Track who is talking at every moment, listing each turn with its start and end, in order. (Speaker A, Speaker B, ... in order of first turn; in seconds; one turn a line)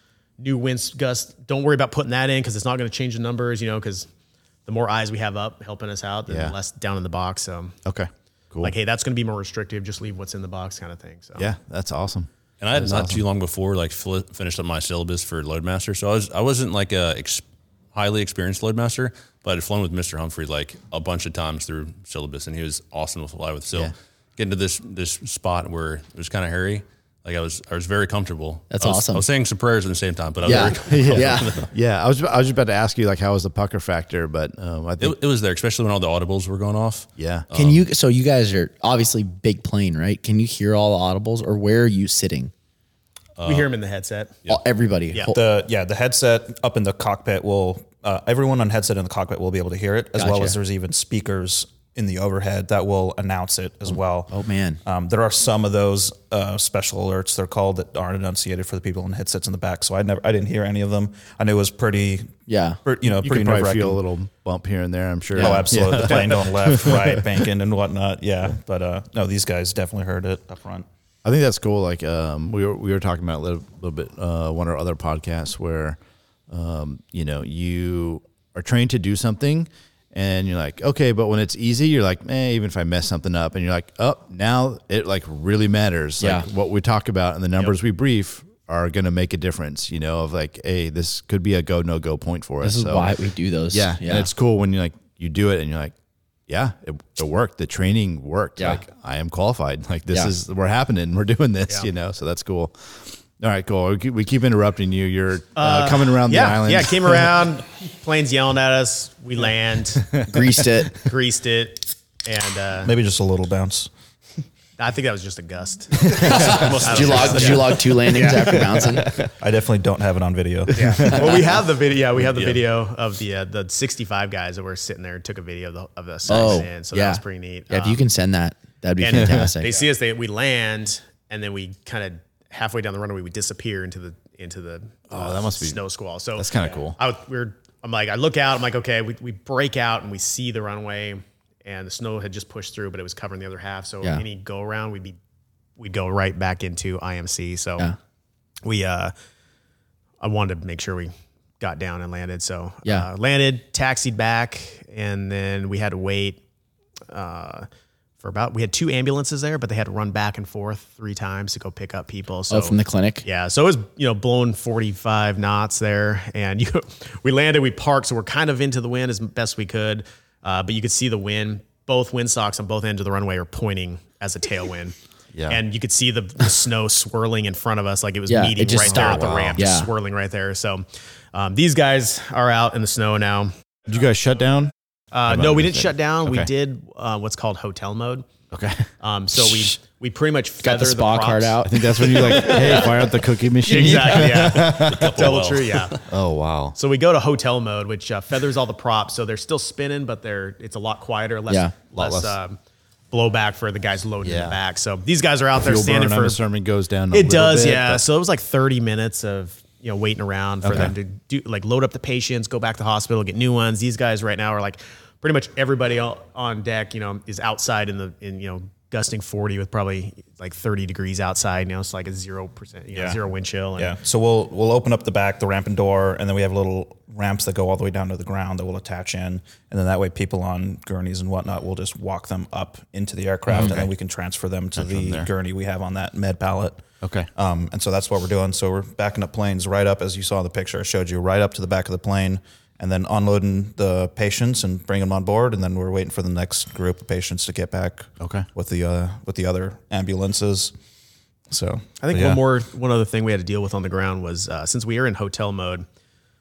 Speaker A: 0.4-4.1
Speaker A: 4.7-7.8
Speaker B: 6.3-6.5
Speaker B: 7.8-8.8
Speaker A: 8.6-11.5
Speaker B: 11.4-13.2
Speaker C: 12.6-31.7
Speaker D: 28.7-29.3
Speaker B: 30.4-35.2
Speaker D: 30.4-31.6
Speaker C: 35.0-37.8
Speaker B: 37.2-37.5
Speaker D: 37.5-42.5
Speaker C: 43.4-43.7
Speaker A: 43.4-44.4
Speaker D: 44.5-45.4
Speaker E: 45.3-54.3
Speaker D: 50.1-50.6
Speaker D: 54.3-54.8
Speaker E: 54.8-64.0
Speaker D: 62.5-62.8
Speaker B: 63.1-67.4
Speaker D: 65.3-65.7
Speaker E: 65.4-70.9
Speaker B: 71.2-93.2
Speaker D: 86.2-86.5
Speaker D: 92.6-94.3
Speaker B: 93.7-95.9
Speaker B: 96.5-107.4
Speaker A: 105.6-110.1
Speaker D: 110.3-111.0
Speaker A: 110.9-112.9
Speaker E: 112.8-113.9
Speaker A: 114.8-118.7
Speaker B: 116.0-116.8
Speaker D: 116.2-119.1
Speaker C: 116.6-117.5
Speaker B: 118.8-119.3
Speaker E: 119.4-121.4
Speaker A: 120.7-128.0
Speaker B: 120.8-121.3
Speaker D: 126.3-129.8
Speaker A: 129.0-145.2
Speaker B: 129.2-129.5
Speaker B: 135.1-135.8
Speaker B: 136.4-137.0
Speaker A: 145.8-147.9
Speaker A: 148.6-149.1
Speaker A: 150.2-156.4
Speaker A: 157.1-157.7
Speaker A: 158.2-174.9
Speaker D: 162.5-163.3
Speaker B: 175.3-175.6
Speaker A: 175.5-183.5
Speaker D: 178.3-179.9
Speaker B: 178.8-179.6
Speaker B: 183.9-184.7
Speaker A: 185.1-188.3
Speaker B: 185.3-186.5
Speaker B: 188.5-189.8
Speaker A: 189.0-196.0
Speaker D: 190.6-192.6
Speaker B: 191.6-195.5
Speaker C: 194.9-195.5
Speaker B: 196.1-196.8
Speaker A: 196.8-202.6
Speaker D: 201.5-201.7
Speaker B: 202.0-202.4
Speaker A: 203.1-206.4
Speaker B: 204.2-204.6
Speaker B: 205.6-208.0
Speaker A: 207.1-224.0
Speaker B: 210.6-210.9
Speaker E: 222.9-223.2
Speaker E: 223.8-250.7
Speaker D: 233.5-233.8
Speaker B: 233.5-233.9
Speaker B: 234.8-235.3
Speaker B: 237.0-237.3
Speaker B: 248.2-248.5
Speaker E: 251.5-252.4
Speaker A: 252.0-255.8